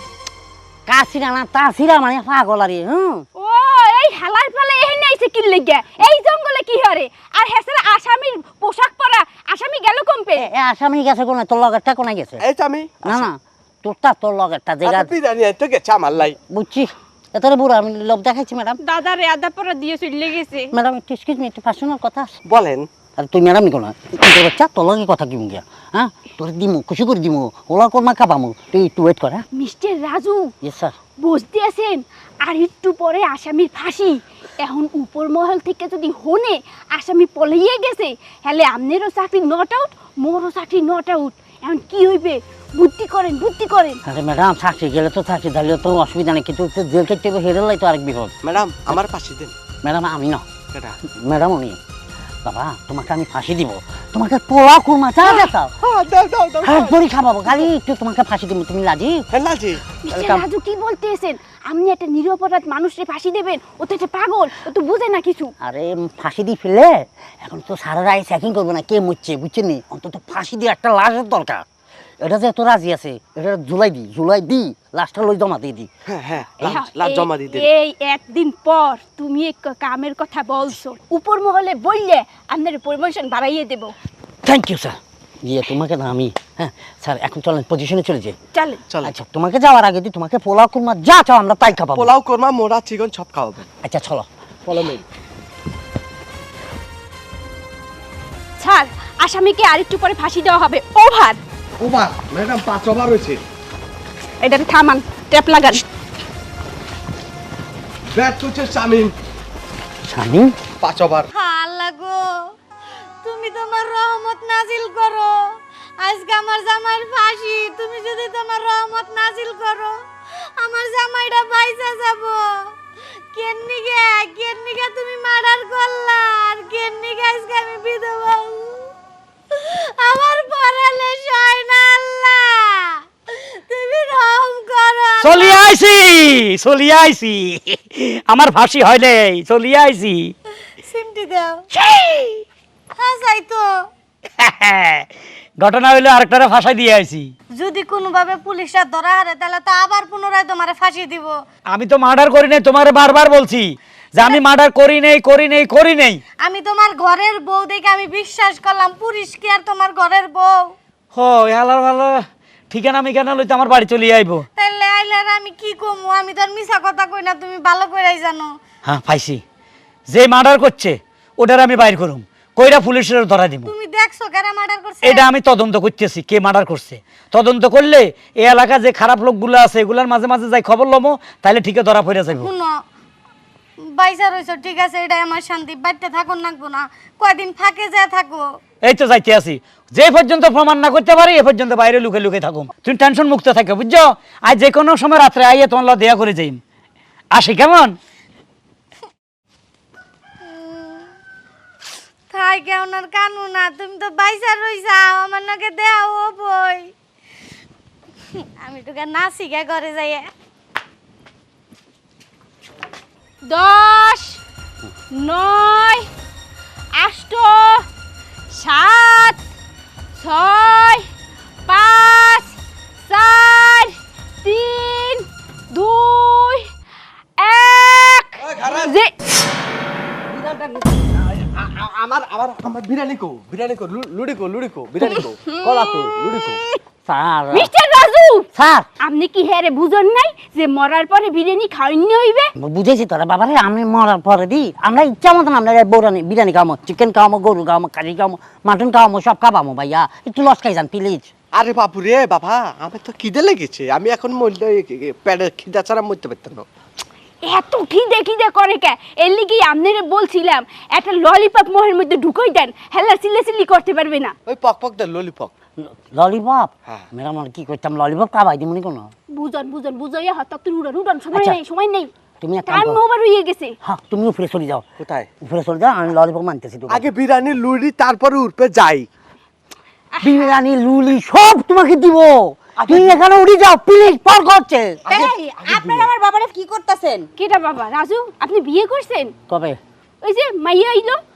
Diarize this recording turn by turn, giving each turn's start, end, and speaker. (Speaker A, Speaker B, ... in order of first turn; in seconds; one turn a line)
Speaker A: 0.9-3.3
Speaker B: 3.4-10.5
Speaker A: 10.4-12.4
Speaker C: 12.4-13.3
Speaker A: 13.0-15.1
Speaker C: 14.8-16.4
Speaker A: 16.5-18.8
Speaker B: 18.8-20.7
Speaker A: 20.7-22.4
Speaker C: 22.4-22.9
Speaker A: 23.1-29.4
Speaker B: 29.5-30.5
Speaker A: 30.6-30.9
Speaker B: 31.2-44.0
Speaker A: 44.0-48.4
Speaker C: 48.4-49.5
Speaker A: 49.8-50.5
Speaker A: 51.1-51.8
Speaker A: 52.5-55.7
Speaker C: 55.2-57.0
Speaker A: 56.6-59.2
Speaker C: 59.3-59.8
Speaker B: 60.0-65.5
Speaker A: 60.1-60.4
Speaker A: 65.6-71.7
Speaker A: 72.2-75.9
Speaker C: 76.1-77.7
Speaker B: 76.6-83.9
Speaker A: 84.4-88.4
Speaker B: 88.5-88.8
Speaker A: 89.0-92.1
Speaker C: 92.0-93.7
Speaker A: 93.8-94.3
Speaker C: 94.7-95.0
Speaker B: 98.6-101.4
Speaker C: 101.8-103.4
Speaker B: 104.4-105.8
Speaker C: 108.2-109.1
Speaker A: 110.1-110.5
Speaker C: 110.8-111.3
Speaker D: 111.3-112.3
Speaker D: 113.2-115.3
Speaker D: 116.0-119.9
Speaker D: 120.6-122.4
Speaker D: 123.3-128.8
Speaker D: 129.6-135.7
Speaker E: 135.2-140.3
Speaker D: 140.8-141.6
Speaker E: 141.8-142.4
Speaker D: 143.0-143.7
Speaker E: 144.4-145.1
Speaker E: 145.6-147.3
Speaker D: 147.6-151.3
Speaker E: 151.7-156.2
Speaker D: 156.4-160.7
Speaker E: 161.1-164.5
Speaker D: 164.6-168.5
Speaker E: 168.8-169.4
Speaker E: 170.1-173.7
Speaker D: 173.7-175.3
Speaker E: 175.0-182.5
Speaker D: 182.4-182.7
Speaker D: 183.9-188.4
Speaker E: 188.8-196.6
Speaker E: 197.3-198.0
Speaker D: 200.5-201.1
Speaker D: 202.3-206.9
Speaker D: 208.4-210.3
Speaker B: 213.5-214.4
Speaker B: 215.2-216.1
Speaker B: 216.9-217.9
Speaker B: 218.5-219.4
Speaker B: 220.2-221.1
Speaker B: 221.7-226.7
Speaker B: 227.4-229.1
Speaker C: 228.4-228.9
Speaker C: 230.3-236.6
Speaker B: 235.0-236.8
Speaker A: 237.1-237.7
Speaker B: 237.5-238.5
Speaker A: 238.6-238.9
Speaker B: 239.0-242.5
Speaker A: 242.6-251.3
Speaker C: 251.5-256.7
Speaker B: 257.4-264.3
Speaker C: 264.5-265.5
Speaker A: 265.8-269.1
Speaker B: 269.3-272.1
Speaker A: 271.3-271.6
Speaker A: 272.4-273.0
Speaker B: 272.7-273.8
Speaker A: 273.8-274.9
Speaker C: 275.0-275.3
Speaker A: 275.4-277.1
Speaker C: 276.9-279.1
Speaker B: 280.1-280.5
Speaker A: 280.2-285.1
Speaker C: 282.8-283.2
Speaker F: 285.1-287.3
Speaker C: 285.1-286.1
Speaker B: 287.4-289.3
Speaker A: 289.5-289.8
Speaker B: 290.2-291.2